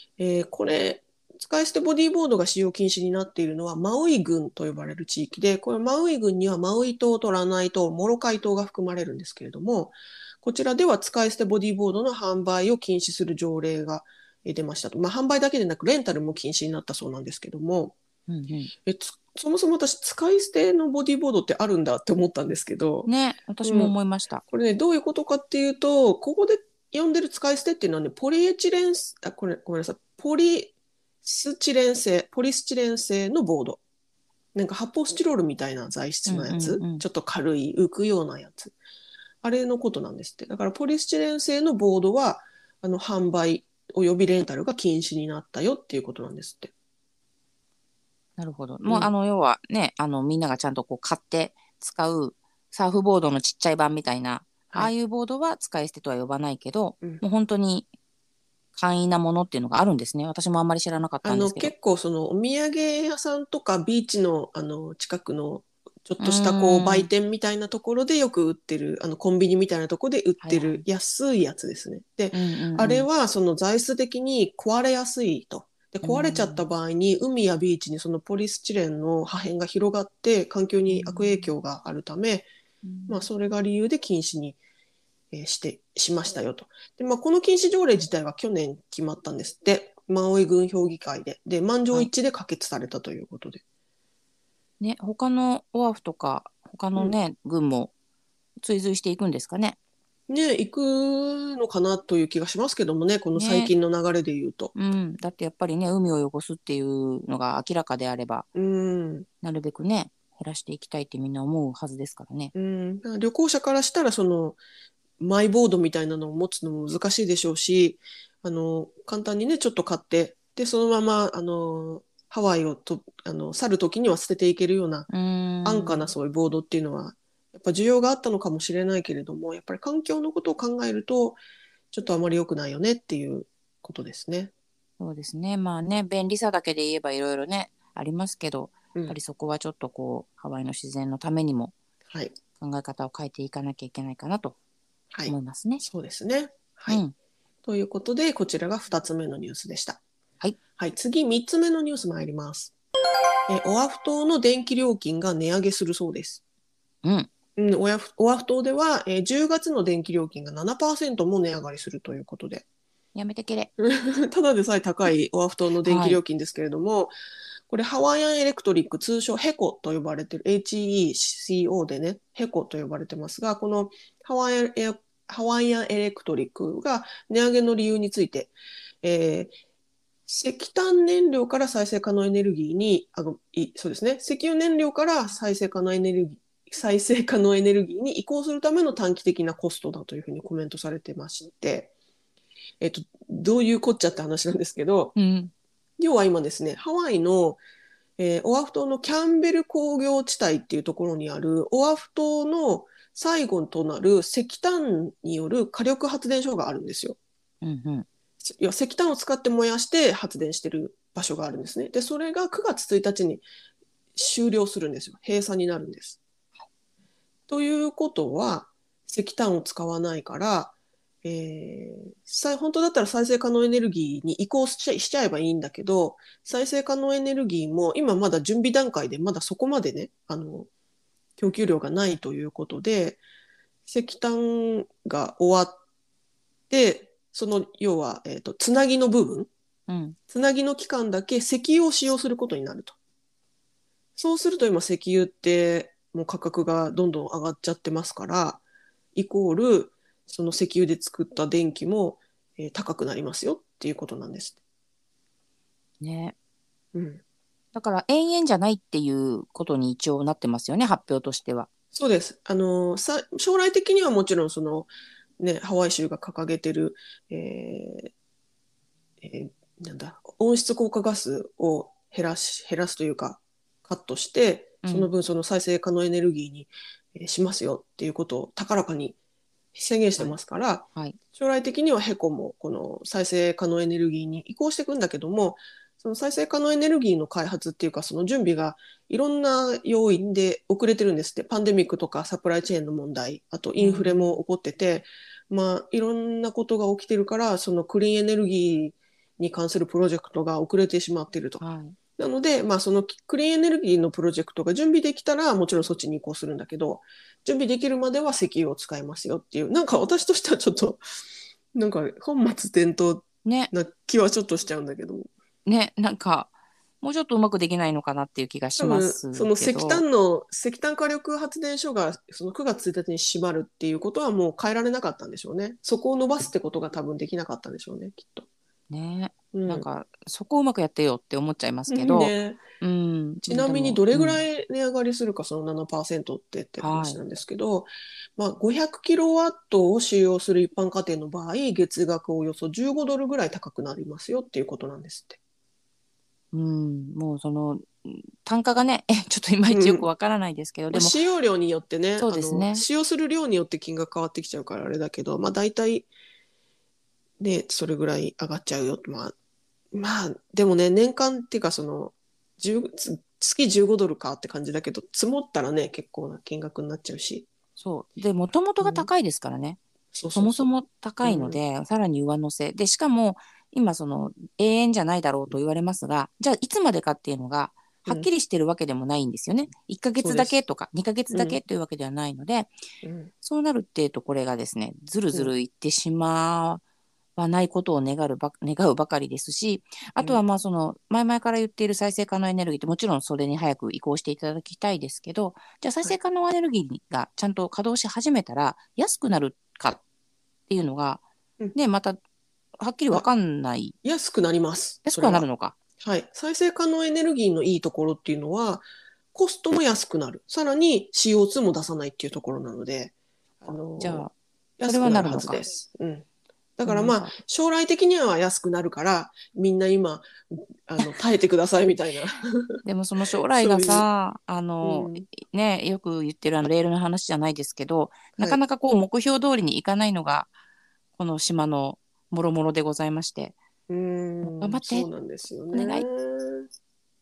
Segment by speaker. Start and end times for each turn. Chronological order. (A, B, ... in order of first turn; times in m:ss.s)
0:00.2-0:17.9 A
0:18.3-0:18.7 B
0:18.8-0:23.1 A
0:23.0-0:24.4 B
0:23.6-0:23.9 A
0:24.5-0:30.7 A
0:31.2-0:33.8 A
0:34.5-0:38.7 A
0:36.3-0:37.0 B
0:39.4-0:46.7 A
0:48.4-0:57.9 B
0:48.8-0:49.1 A
0:58.8-1:01.7 B
1:01.2-1:22.5 A
1:06.2-1:07.1 B
1:10.4-1:10.8 B
1:12.3-1:13.1 B
1:16.0-1:16.6 B
1:20.9-1:21.5 B
1:22.8-1:23.3 B
1:23.1-1:24.6 A
1:25.3-1:33.6 A
1:34.8-1:37.9 B
1:38.6-1:39.8 B
1:40.3-1:44.7 A
1:43.3-1:43.7 B
1:44.7-1:48.5 B
1:48.5-1:49.3 A
1:49.4-1:52.5 B
1:52.5-1:54.6 A
1:55.2-2:05.1 A
2:05.1-2:06.1 B
2:05.6-2:11.4 A
2:11.9-2:14.5 A
2:15.0-2:21.7 B
2:22.1-2:22.4 A
2:22.6-2:24.6 B
2:25.1-2:27.0 A
2:25.3-2:25.8 B
2:26.9-2:27.1 B
2:27.6-2:30.0 A
2:30.8-2:32.7 A
2:33.5-2:36.4 A
2:37.0-2:37.3 B
2:37.6-2:42.6 A
2:43.1-2:43.7 B
2:43.8-2:47.1 A
2:45.8-2:46.2 B
2:47.7-2:59.5 A
3:00.3-3:11.9 A
3:12.8-3:15.1 A
3:15.1-3:15.5 B
3:16.0-3:17.6 A
3:18.2-3:27.2 A
3:27.6-3:28.0 B
3:28.4-3:33.4 A
3:34.1-3:36.2 A
3:37.5-3:40.7 A
3:41.2-3:50.7 A
3:51.4-3:53.2 A
3:53.9-3:55.8 A
3:56.7-3:59.5 A
3:59.9-4:00.2 B
4:00.3-4:03.0 A
4:04.2-4:08.6 A
4:09.1-4:14.6 A
4:16.0-4:16.3 B
4:16.9-4:17.2 A
4:17.7-4:21.7 B
4:21.9-4:28.1 A
4:29.2-4:39.2 A
4:34.8-4:35.1 B
4:39.7-5:01.6 A
4:53.8-4:54.4 B
5:01.6-5:02.0 B
5:02.2-5:11.0 A
5:11.7-5:15.3 A
5:13.4-5:13.7 B
5:15.6-5:20.0 B
5:18.8-5:28.4 A
5:28.9-5:34.4 B
5:29.5-5:29.9 A
5:31.9-5:32.6 A
5:33.4-5:45.4 A
5:36.8-5:37.2 B
5:46.5-5:51.2 B
5:49.7-5:50.0 A
5:50.9-5:56.1 A
5:52.2-5:52.8 B
5:57.4-5:59.3 A
5:59.9-6:07.5 A
6:07.8-6:09.8 B
6:08.8-6:09.1 A
6:10.1-6:10.7 A
6:10.3-6:22.7 B
6:11.2-6:11.6 A
6:20.2-6:20.6 A
6:21.3-6:21.6 A
6:23.0-6:23.3 A
6:23.4-6:26.8 B
6:27.4-6:40.0 B
6:40.7-6:41.2 B
6:41.7-6:42.2 B
6:42.8-6:44.0 B
6:44.0-6:45.5 A
6:45.0-6:45.8 B
6:46.0-6:54.3 A
6:54.0-6:54.3 B
6:54.8-6:56.2 A
6:54.8-6:55.6 B
6:56.8-7:02.8 A
6:56.8-6:57.3 B
7:02.8-7:10.5 B
7:03.4-7:04.0 A
7:04.8-7:05.2 A
7:11.2-7:13.6 B
7:13.9-7:16.7 A
7:14.4-7:15.1 B
7:15.7-7:16.0 B